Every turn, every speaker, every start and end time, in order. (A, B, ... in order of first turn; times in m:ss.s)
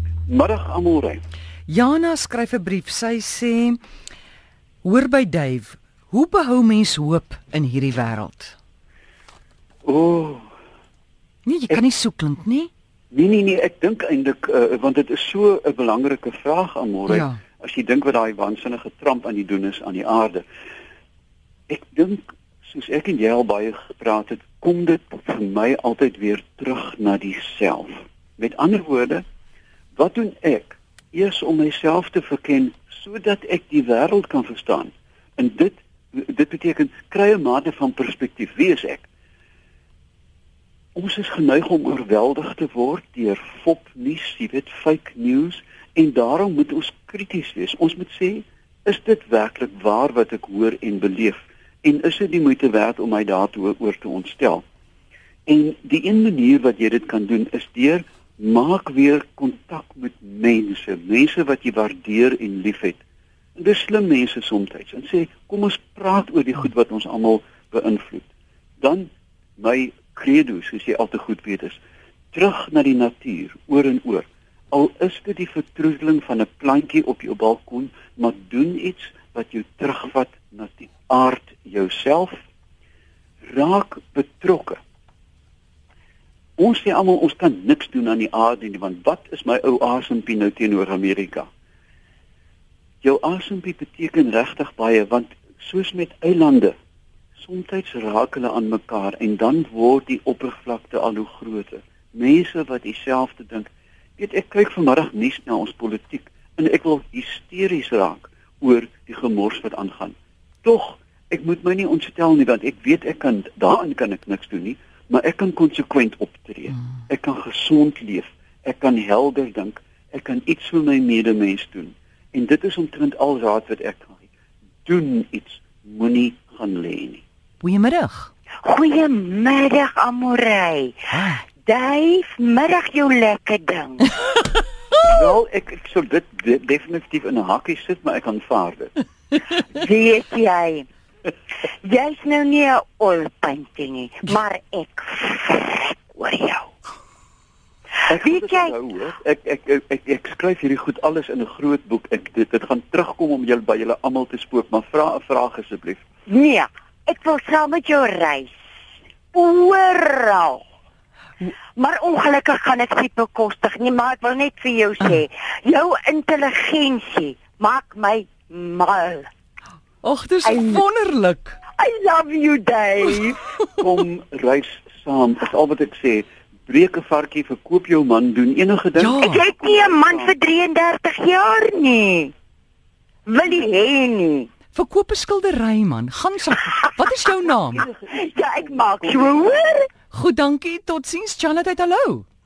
0:00.3-0:01.2 A
0:01.7-0:03.8 B
0:04.8-0:08.6 B
0:09.8-0:10.5 A
0:11.5-0:12.7 B
0:13.1-0:20.4 A
0:17.1-0:17.4 B
0:21.7-0:29.2 A
0:30.0-0:39.1 A
0:41.0-0:54.6 A
0:55.5-1:03.0 A
1:03.6-1:08.3 A
1:08.8-1:11.8 A
1:12.3-1:22.4 A
1:23.5-1:24.8 A
1:26.6-1:31.5 A
1:33.0-1:36.8 A
1:37.4-2:04.2 A
2:04.9-2:07.2 A
2:07.6-2:08.3 B
2:08.6-2:11.1 C
2:11.1-2:11.4 B
2:11.6-2:14.1 C
2:15.1-2:18.9 A
2:19.7-2:20.9 C
2:21.7-2:26.7 C
2:28.1-2:36.0 A
2:28.1-2:28.8 C
2:36.3-2:38.6 C
2:39.3-2:40.6 C
2:41.4-2:49.3 C
2:50.0-2:51.6 B
2:50.4-2:50.8 C
2:51.7-2:53.5 C
2:53.8-3:00.4 A
2:59.0-2:59.4 B
2:59.2-3:02.3 C
3:03.3-3:04.5 C
3:04.7-3:07.8 B
3:06.7-3:07.0 C
3:07.4-3:09.8 A
3:08.1-3:09.9 C
3:10.1-3:12.2 B